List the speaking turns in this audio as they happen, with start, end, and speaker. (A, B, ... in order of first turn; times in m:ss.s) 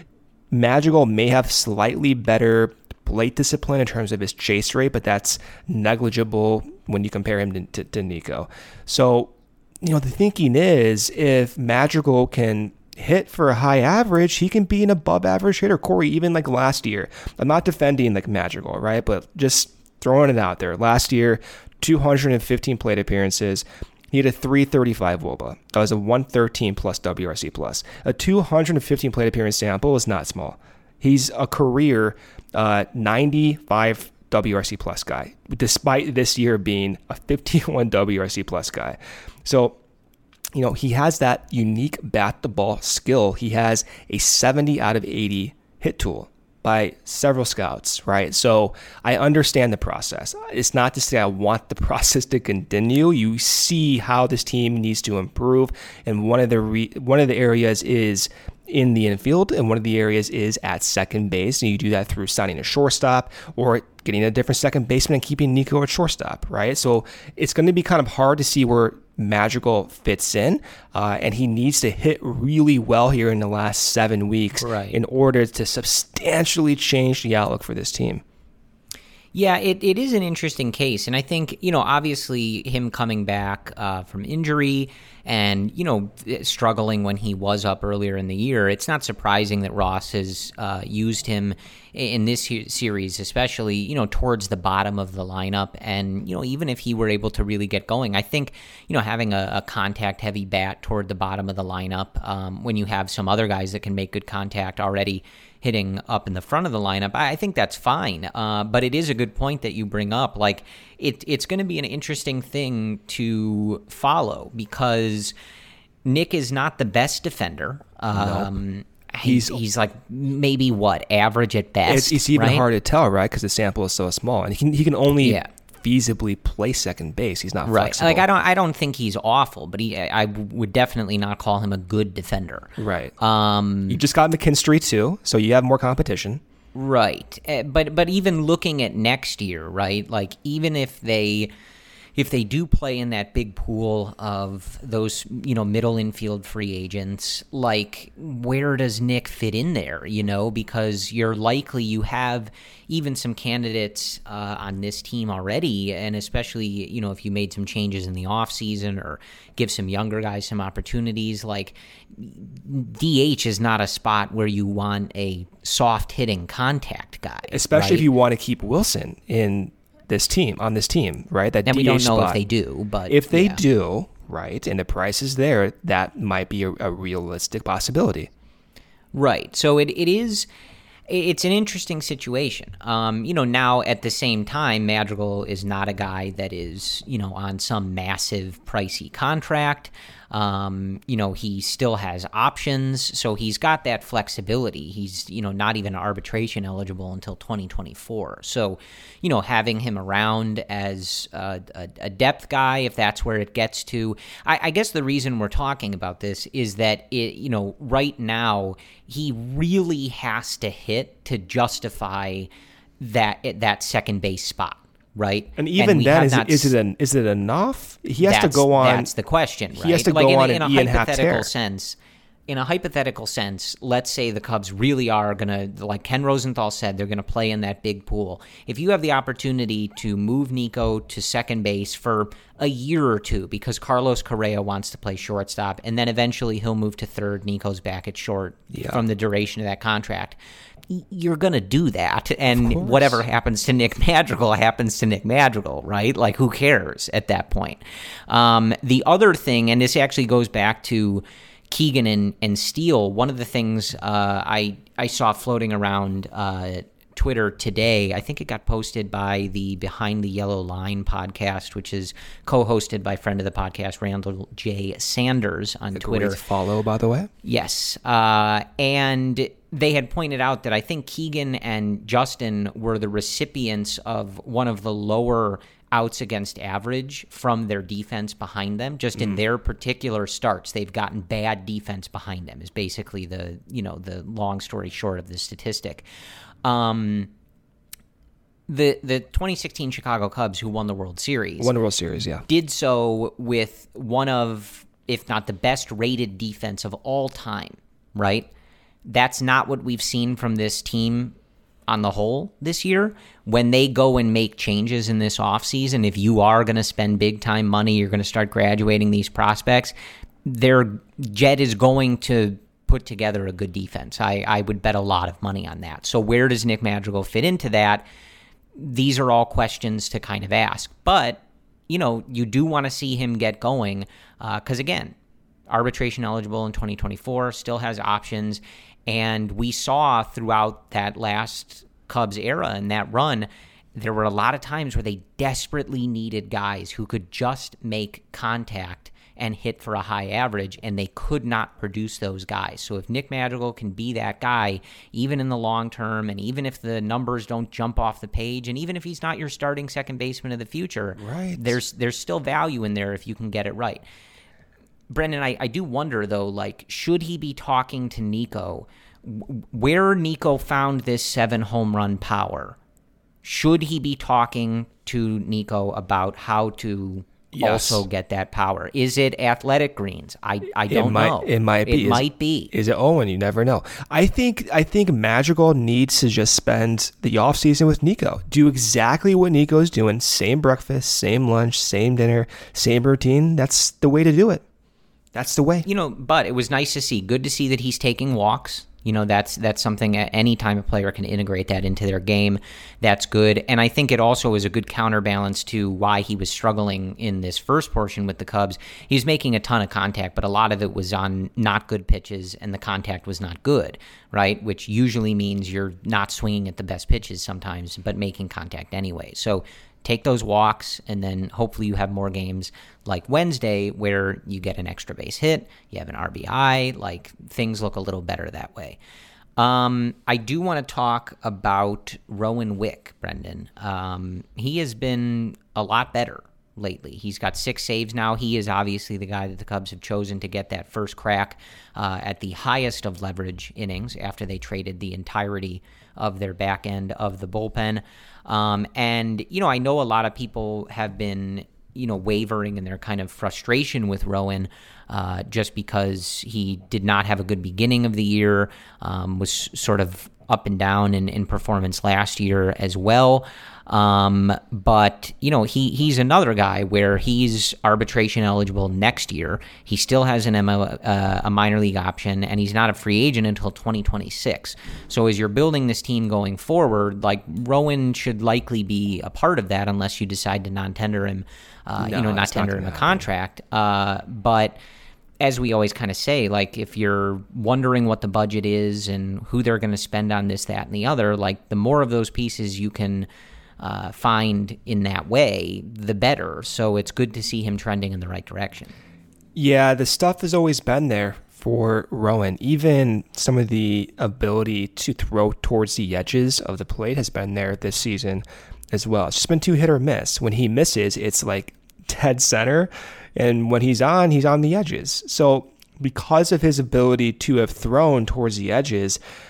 0:00.5-0:39.8 A
0:40.5-1:18.2 A
1:14.6-1:15.0 B
1:19.3-1:55.3 B
1:56.0-2:02.7 B
1:58.1-1:58.5 A
1:59.2-1:59.6 A
2:01.8-2:08.2 A
2:05.2-2:05.5 B
2:07.7-2:14.0 B
2:12.8-2:13.1 A
2:13.9-2:16.4 A
2:16.8-2:21.5 B
2:22.2-2:48.1 B
2:47.5-2:52.4 A
2:51.6-2:53.6 B
2:53.1-2:58.3 A
2:59.1-3:00.5 B
3:01.1-3:32.5 B
3:33.0-3:36.7 B
3:35.6-3:39.1 A
3:38.2-3:42.0 B
3:39.8-3:41.5 A
3:42.5-4:26.4 B
3:58.7-3:59.0 A
4:02.5-4:03.2 A
4:25.9-4:27.3 A
4:27.4-4:46.0 B
4:46.6-4:47.3 B
4:48.7-4:51.7 B
4:51.6-4:52.4 A
4:52.4-4:58.5 B
4:59.1-5:01.4 B
5:01.9-5:09.9 B
5:10.4-5:18.0 B
5:18.8-5:25.2 B
5:25.7-5:54.0 B
5:51.2-5:51.8 A
5:55.1-6:02.8 B
6:03.4-6:12.7 B
6:07.5-6:08.0 A
6:10.9-6:24.6 A
6:25.3-6:25.9 A
6:25.9-6:59.0 B
6:59.6-7:54.8 B
7:52.0-7:53.3 A
7:55.4-8:03.3 B
8:03.8-8:08.9 B
8:09.6-8:29.2 A